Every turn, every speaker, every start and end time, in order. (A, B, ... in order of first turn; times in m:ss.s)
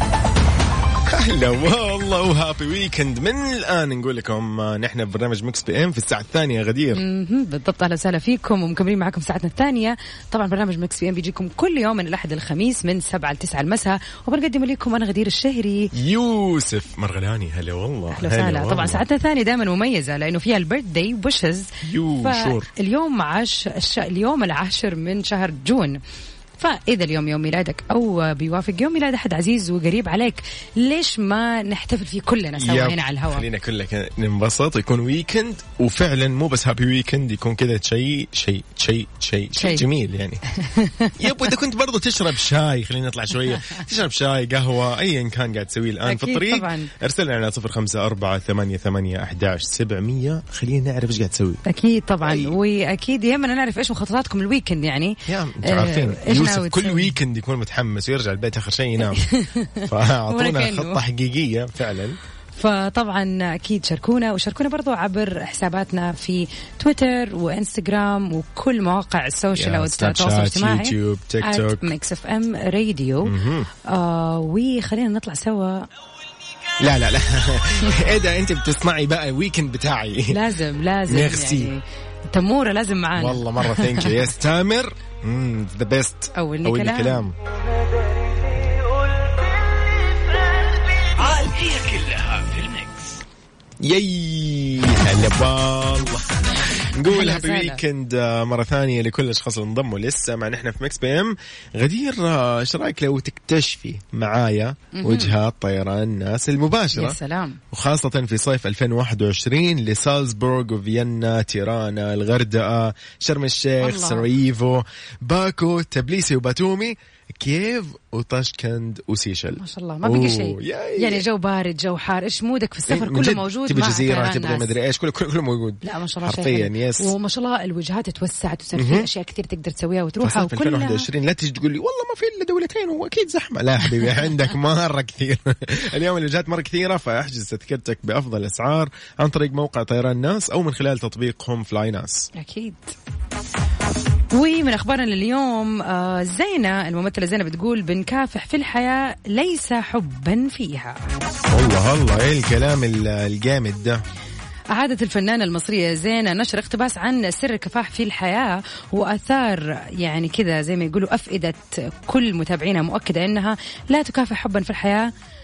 0:01.1-0:07.0 A
0:06.9-0:15.9 B
0:15.9-0:19.0 A
0:18.1-0:26.0 B
0:21.8-0:22.7 A
0:26.6-0:33.4 B
0:32.6-0:40.4 A
0:39.6-0:39.8 B
0:40.5-0:41.2 B
0:41.2-0:51.6 A
0:46.0-0:46.9 B
0:51.6-0:57.1 B
0:52.2-0:52.6 A
0:55.3-0:59.2 A
0:59.0-1:01.0 B
0:59.8-1:02.2 A
1:02.5-1:13.3 B
1:09.5-1:11.8 A
1:13.2-1:13.7 A
1:13.8-1:15.9 B
1:16.8-1:20.4 A
1:20.3-1:24.2 B
1:21.1-1:21.7 A
1:23.2-1:27.3 A
1:26.3-1:27.3 B
1:31.2-1:33.2 C
1:33.8-1:47.2 A
1:37.1-1:37.8 B
1:44.9-1:45.3 B
1:46.9-1:47.6 B
1:47.7-2:01.2 A
1:53.8-1:54.3 B
1:59.5-2:04.7 B
2:02.9-2:07.1 A
2:05.8-2:11.1 B
2:08.8-2:09.1 A
2:10.2-2:22.3 A
2:22.3-2:22.9 B
2:24.3-2:31.0 B
2:31.5-2:34.0 A
2:34.7-2:45.1 B